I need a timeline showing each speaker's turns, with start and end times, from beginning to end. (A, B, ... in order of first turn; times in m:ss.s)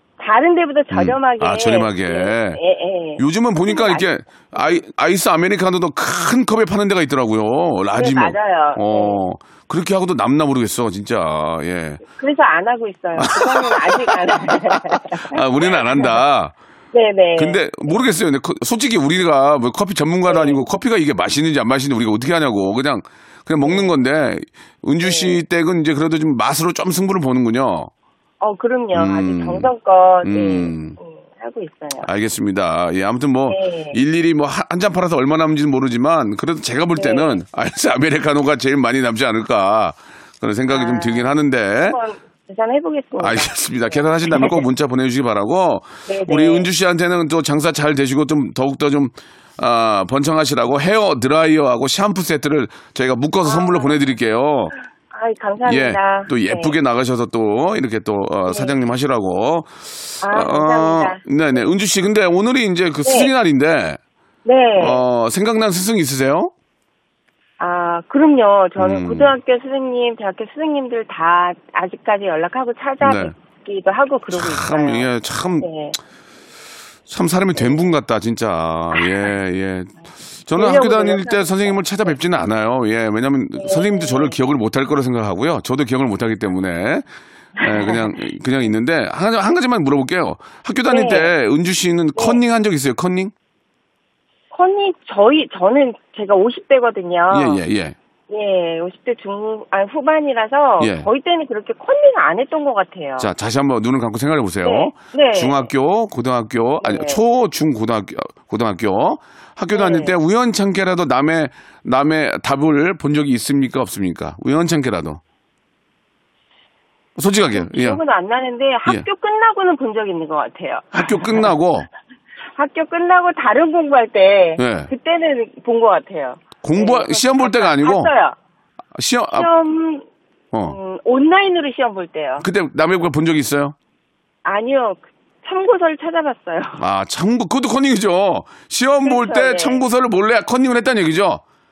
0:00.2-0:04.8 A
0:00.9-0:02.6 B
0:03.2-0:12.0 B
0:08.0-0:09.2 A
0:12.1-0:16.2 A
0:13.2-0:16.6 B
0:16.9-0:18.1 A
0:17.4-0:27.9 B
0:20.3-0:20.6 A
0:23.6-0:23.9 A
0:25.0-0:25.4 A
0:28.4-0:32.1 A
0:28.9-0:29.7 B
0:30.2-0:31.0 B
0:32.0-0:42.0 B
0:33.5-0:34.0 A
0:37.0-0:37.4 A
0:40.7-0:44.6 A
0:43.2-0:54.7 B
0:46.1-0:46.7 A
0:53.4-0:54.0 A
0:55.1-0:56.8 A
0:55.6-1:04.0 B
0:58.5-0:58.8 A
1:00.2-1:01.6 A
1:03.0-1:03.3 A
1:04.4-1:05.0 A
1:04.8-1:06.5 B
1:07.6-1:15.1 A
1:08.8-1:09.4 B
1:13.0-1:13.3 B
1:14.3-1:15.7 B
1:15.6-1:16.0 A
1:17.1-1:33.3 B
1:17.6-1:17.9 A
1:20.6-1:22.2 A
1:23.6-1:24.4 A
1:27.6-1:28.1 A
1:30.9-1:31.3 A
1:34.5-1:37.6 A
1:37.3-1:38.0 B
1:38.3-1:43.3 A
1:40.8-1:41.1 B
1:43.2-1:55.2 B
1:44.6-1:45.7 A
1:46.8-1:47.2 A
1:49.7-1:50.2 A
1:57.2-1:58.0 B
1:57.5-2:01.5 A
2:00.9-2:01.9 B
2:02.6-2:08.4 A
2:04.6-2:04.9 B
2:06.6-2:08.1 B
2:09.0-2:09.5 B
2:09.3-2:10.1 A
2:10.5-2:10.8 B
2:10.7-2:12.5 A
2:12.4-2:13.8 B
2:14.4-2:16.8 A
2:16.8-2:21.4 B
2:19.0-2:19.8 A